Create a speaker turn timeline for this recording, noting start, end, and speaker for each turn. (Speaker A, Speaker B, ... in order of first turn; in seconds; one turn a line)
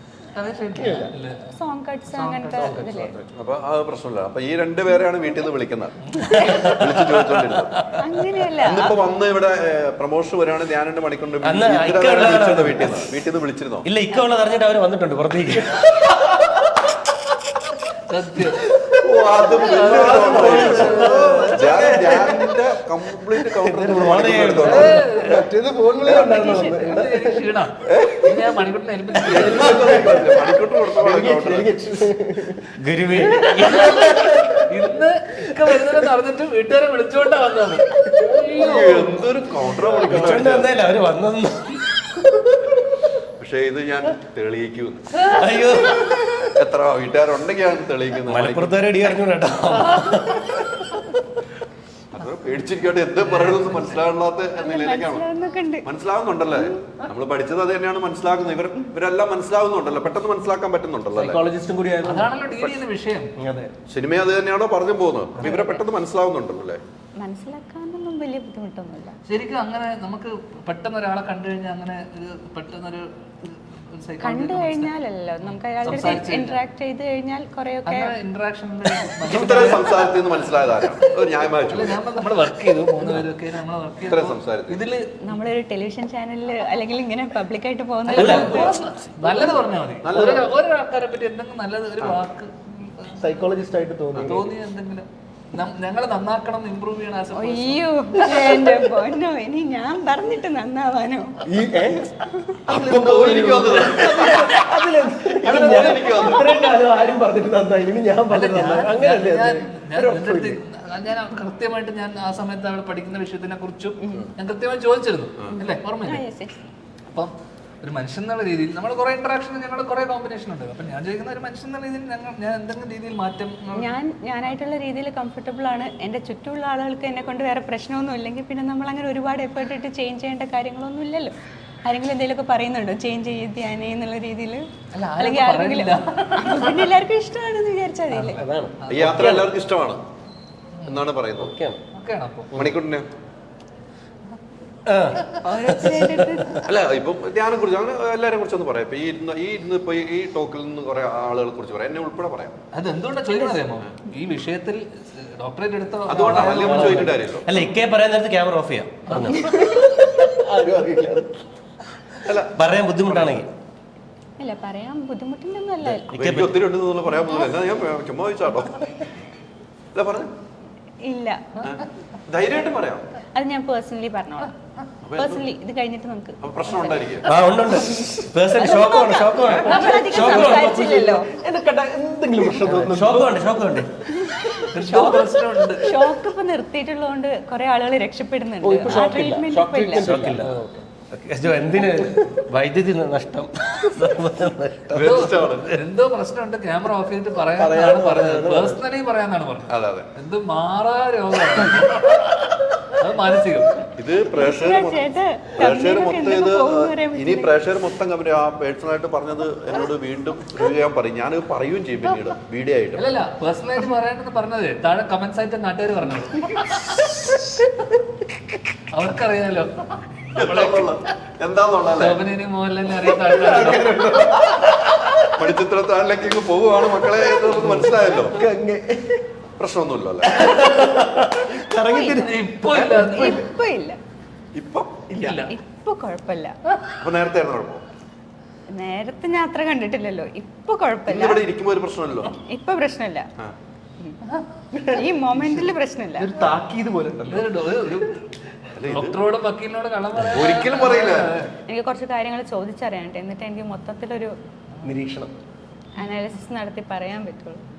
Speaker A: 0.3-1.5
Speaker B: 0.8-1.1
Speaker C: 1.5-3.2
Speaker A: 2.1-2.8
Speaker D: 3.3-7.8
Speaker A: 6.1-7.8
Speaker C: 8.0-9.0
Speaker D: 8.6-13.9
Speaker E: 11.4-13.2
Speaker E: 13.8-15.8
Speaker A: 18.1-18.7
Speaker D: 18.9-25.0
Speaker B: 19.4-22.6
Speaker A: 19.7-21.7
Speaker E: 21.2-21.5
Speaker E: 23.7-24.7
Speaker B: 23.9-27.4
Speaker A: 24.6-25.5
Speaker D: 26.0-26.4
Speaker A: 26.1-29.9
Speaker C: 26.2-27.0
Speaker D: 27.9-28.3
Speaker B: 29.2-34.6
Speaker D: 29.2-31.7
Speaker E: 32.8-34.4
Speaker A: 33.5-39.1
Speaker D: 38.6-40.7
Speaker E: 40.0-42.7
Speaker D: 43.4-45.3
Speaker A: 45.1-45.5
Speaker E: 45.3-46.5
Speaker D: 46.5-48.7
Speaker E: 48.3-50.6
Speaker A: 49.9-50.5
Speaker D: 52.1-55.2
Speaker A: 53.2-54.0
Speaker C: 54.6-55.9
Speaker D: 55.8-61.4
Speaker C: 56.5-56.8
Speaker B: 61.1-62.3
Speaker A: 62.0-63.3
Speaker B: 63.4-63.7
Speaker D: 63.9-66.8
Speaker C: 65.4-65.8
Speaker C: 67.2-69.2
Speaker A: 69.2-76.6
Speaker C: 74.2-78.1
Speaker A: 77.8-81.1
Speaker D: 79.3-81.9
Speaker A: 81.7-85.4
Speaker D: 84.0-84.8
Speaker C: 85.2-88.7
Speaker A: 88.0-93.3
Speaker E: 88.1-88.7
Speaker D: 90.0-90.4
Speaker B: 90.1-90.4
Speaker B: 93.1-94.5
Speaker A: 94.2-98.7
Speaker C: 97.3-101.5
Speaker B: 101.5-110.6
Speaker D: 102.7-104.5
Speaker A: 102.7-104.8
Speaker D: 105.4-106.5
Speaker A: 108.3-116.2
Speaker C: 114.0-114.3
Speaker C: 115.6-116.5
Speaker A: 117.1-123.9
Speaker C: 123.7-134.6
Speaker A: 134.9-136.9
Speaker C: 135.2-138.4
Speaker A: 138.1-139.3
Speaker E: 138.4-139.4
Speaker D: 138.9-140.0
Speaker A: 140.7-141.0
Speaker D: 140.9-141.5
Speaker E: 141.4-141.8
Speaker A: 141.9-142.7
Speaker D: 142.5-143.1
Speaker E: 144.9-145.2
Speaker A: 145.1-145.4
Speaker C: 145.4-146.6
Speaker D: 146.6-152.5
Speaker A: 152.7-157.1
Speaker D: 156.1-157.5
Speaker B: 156.5-157.2
Speaker E: 157.4-159.4
Speaker A: 159.1-159.7
Speaker B: 159.3-161.4
Speaker D: 162.2-163.4
Speaker E: 162.5-163.5
Speaker C: 164.4-166.1
Speaker E: 165.8-166.6
Speaker D: 166.1-169.0
Speaker D: 169.9-170.3
Speaker C: 171.0-171.5
Speaker A: 171.5-171.9
Speaker D: 171.6-173.0
Speaker C: 173.3-174.5
Speaker D: 175.0-175.4
Speaker C: 175.1-177.2
Speaker D: 176.4-177.3
Speaker E: 177.2-180.7
Speaker C: 177.8-178.1
Speaker C: 178.6-181.3
Speaker B: 179.8-183.4
Speaker A: 182.6-182.9
Speaker E: 182.8-183.9
Speaker C: 184.2-190.2
Speaker A: 184.7-186.1
Speaker B: 188.6-190.9
Speaker E: 188.8-189.2
Speaker E: 189.9-195.3
Speaker D: 194.9-195.8
Speaker A: 194.9-203.8
Speaker B: 197.5-198.8
Speaker D: 199.7-200.1
Speaker D: 203.9-213.0
Speaker C: 204.3-207.5
Speaker A: 212.9-217.7
Speaker A: 218.9-221.1
Speaker D: 220.3-222.2
Speaker A: 222.0-224.0
Speaker B: 223.2-224.6
Speaker A: 224.6-224.9
Speaker D: 225.3-228.4
Speaker B: 227.5-229.2
Speaker D: 229.6-230.4
Speaker B: 230.2-233.4
Speaker A: 230.3-231.3
Speaker C: 231.8-232.3
Speaker A: 232.2-233.4
Speaker C: 232.9-234.0
Speaker D: 234.5-235.1
Speaker A: 235.1-235.5
Speaker C: 235.4-236.6
Speaker A: 236.7-236.9
Speaker D: 237.0-237.8
Speaker C: 238.7-241.5
Speaker D: 241.1-242.3
Speaker C: 242.3-243.3
Speaker C: 244.9-246.4
Speaker B: 246.2-247.5
Speaker A: 246.3-246.6
Speaker A: 247.2-251.5
Speaker D: 248.8-249.2
Speaker D: 250.3-251.3
Speaker C: 251.7-254.3
Speaker A: 254.8-255.0
Speaker B: 254.8-255.3
Speaker C: 255.9-257.6